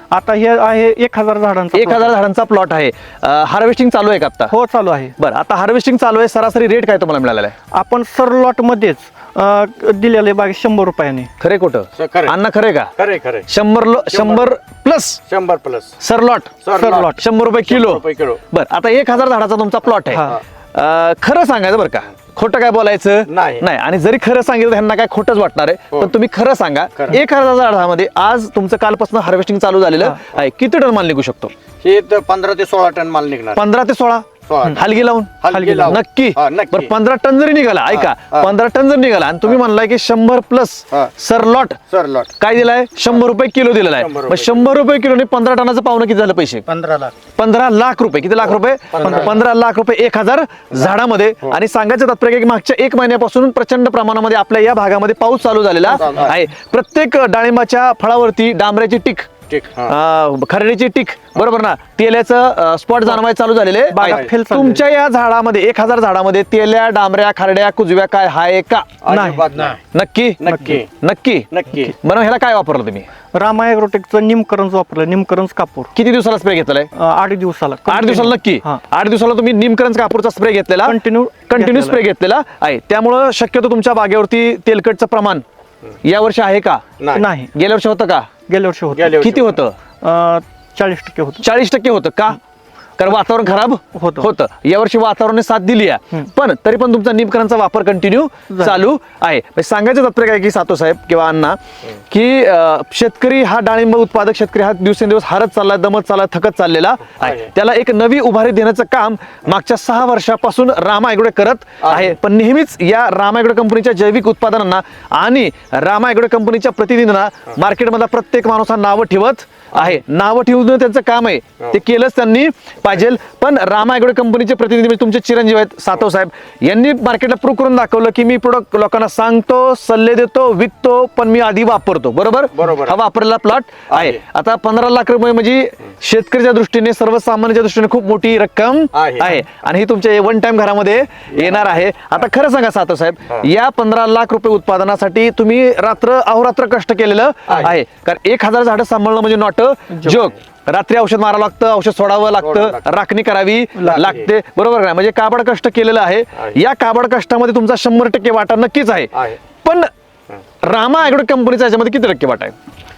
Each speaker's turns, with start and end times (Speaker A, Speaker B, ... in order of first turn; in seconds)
Speaker A: 0.1-2.1, 4.5-5.2, 7.7-11.3, 16.8-17.2, 20.1-20.4, 35.5-36.0, 63.9-64.8, 69.1-69.4, 73.3-75.9, 77.0-78.8, 80.8-82.0, 87.2-87.5, 88.5-89.2, 90.0-91.5, 94.0-94.3, 98.5-98.8
Speaker B: 1.7-4.5, 5.2-7.5, 11.4-12.9, 13.5-15.2, 16.0-31.5, 33.6-41.8, 42.4-46.7, 47.4-59.3, 59.9-73.1, 76.0-76.9, 77.9-85.4, 86.0-86.8, 87.5-88.3, 89.2-89.8, 91.4-92.4, 93.0-101.6, 102.1-159.9, 160.6-162.6
Speaker C: 12.0-12.3, 13.0-13.5, 14.1-14.5, 15.3-15.9, 16.6-18.4, 23.3-23.6, 31.8-33.6, 34.5-34.9, 35.4-36.9, 37.9-38.5, 41.9-42.3, 44.0-44.7, 46.7-47.1, 48.9-49.4, 55.9-56.3, 59.5-60.0, 64.0-64.3, 69.0-69.8, 70.4-70.9, 71.5-71.9, 87.0-87.3, 88.9-89.5, 107.2-107.5, 111.8-112.1, 119.7-120.0, 132.6-133.0, 133.9-134.2, 138.9-139.4, 141.3-141.7, 147.5-147.7, 152.4-152.8, 153.8-154.2, 159.1-159.4